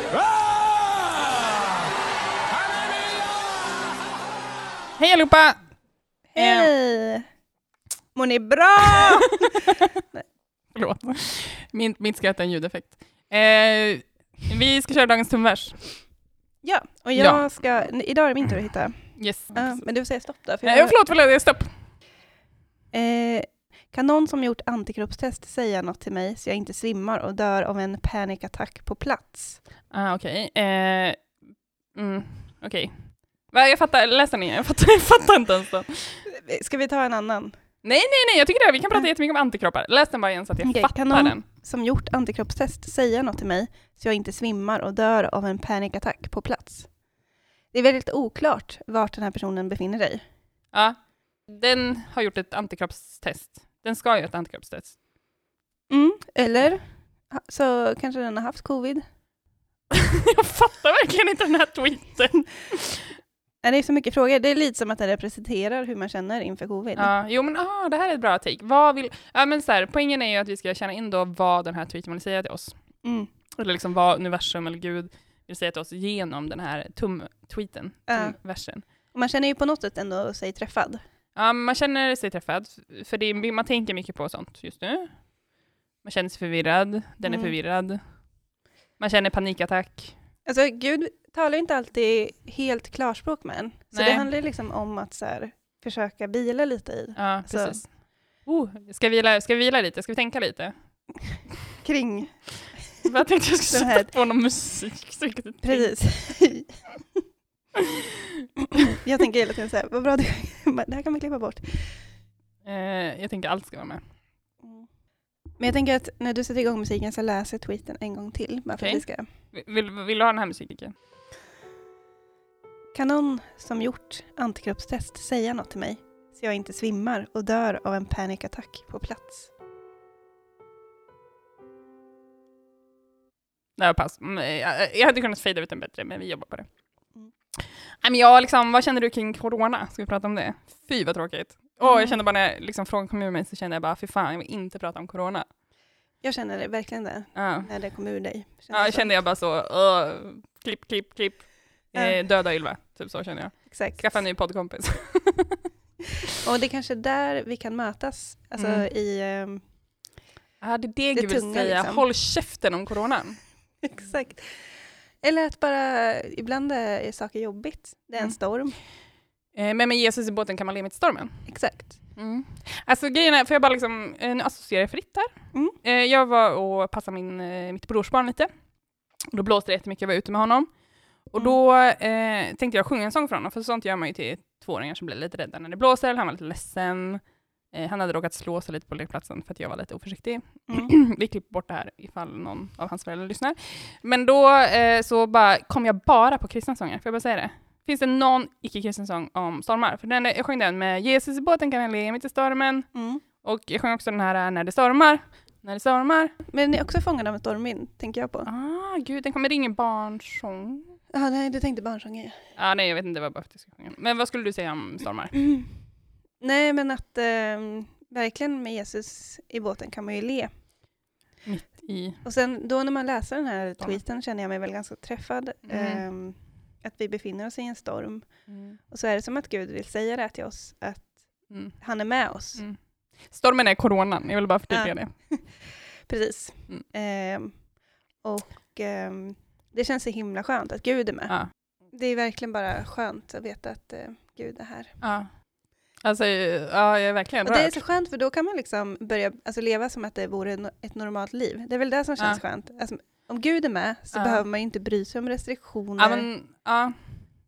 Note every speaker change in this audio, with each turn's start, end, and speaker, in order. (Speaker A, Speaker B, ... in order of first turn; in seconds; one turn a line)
Speaker A: 5.0-5.6
Speaker B: 6.3-7.2
Speaker A: 6.4-6.7
Speaker B: 8.2-10.2
Speaker A: 10.7-15.8
Speaker B: 16.6-21.0
Speaker A: 17.2-17.5
Speaker A: 19.2-19.8
Speaker A: 20.6-21.7
Speaker B: 22.9-29.6
Speaker A: 29.9-31.4
Speaker A: 31.9-36.2
Speaker B: 36.3-37.5
Speaker A: 37.8-41.4
Speaker B: 40.6-46.9
Speaker B: 47.7-50.2
Speaker A: 51.5-55.0
Speaker B: 55.9-59.0
Speaker A: 59.9-63.1
Speaker B: 63.6-67.1
Speaker A: 67.0-72.8
Speaker B: 73.0-73.3
Speaker A: 73.6-78.8
Speaker B: 78.1-78.4
Speaker B: 79.1-81.0
Speaker A: 81.4-85.2
Speaker A: 86.0-88.0
Speaker B: 87.2-87.5
Speaker A: 89.0-90.1
Speaker B: 90.5-97.8
Speaker A: 93.9-94.3
Speaker A: 97.2-100.7
Speaker B: 101.8-103.0
Speaker A: 103.0-105.9
Speaker B: 103.7-104.1
Speaker B: 105.6-106.8
Speaker B: 108.7-112.0
Speaker A: 112.6-114.0
Speaker B: 115.6-119.3
Speaker A: 118.8-120.9
Speaker B: 122.9-129.5
Speaker A: 133.8-136.7
Speaker A: 138.0-145.5
Speaker B: 141.8-142.2
Speaker B: 146.2-149.2
Speaker A: 147.3-147.7
Speaker A: 148.7-155.6
Speaker B: 153.7-154.2
Speaker B: 156.4-159.6
Speaker A: 158.6-158.9
Speaker A: 160.6-163.4
Speaker B: 161.1-162.0
Speaker B: 163.8-168.8
Speaker A: 169.5-171.5
Speaker B: 171.5-172.0
Speaker A: 172.2-175.3
Speaker A: 175.8-178.5
Speaker A: 179.3-180.7
Speaker A: 181.3-187.2
Speaker A: 187.7-202.9
Speaker B: 202.9-203.2
Speaker A: 203.4-206.3
Speaker B: 206.5-208.5
Speaker A: 208.4-211.0
Speaker B: 211.1-212.4
Speaker A: 212.6-215.4
Speaker B: 216.4-220.5
Speaker A: 221.5-222.2
Speaker B: 222.2-228.3
Speaker A: 225.7-226.0
Speaker A: 228.5-228.8
Speaker B: 228.9-231.2
Speaker A: 231.5-231.8
Speaker B: 231.8-232.6
Speaker A: 233.3-235.1
Speaker B: 234.7-237.6
Speaker B: 238.2-241.4
Speaker B: 241.9-245.0
Speaker A: 245.0-245.3
Speaker A: 246.0-247.8
Speaker B: 247.4-256.3
Speaker A: 254.1-254.4
Speaker A: 256.0-257.0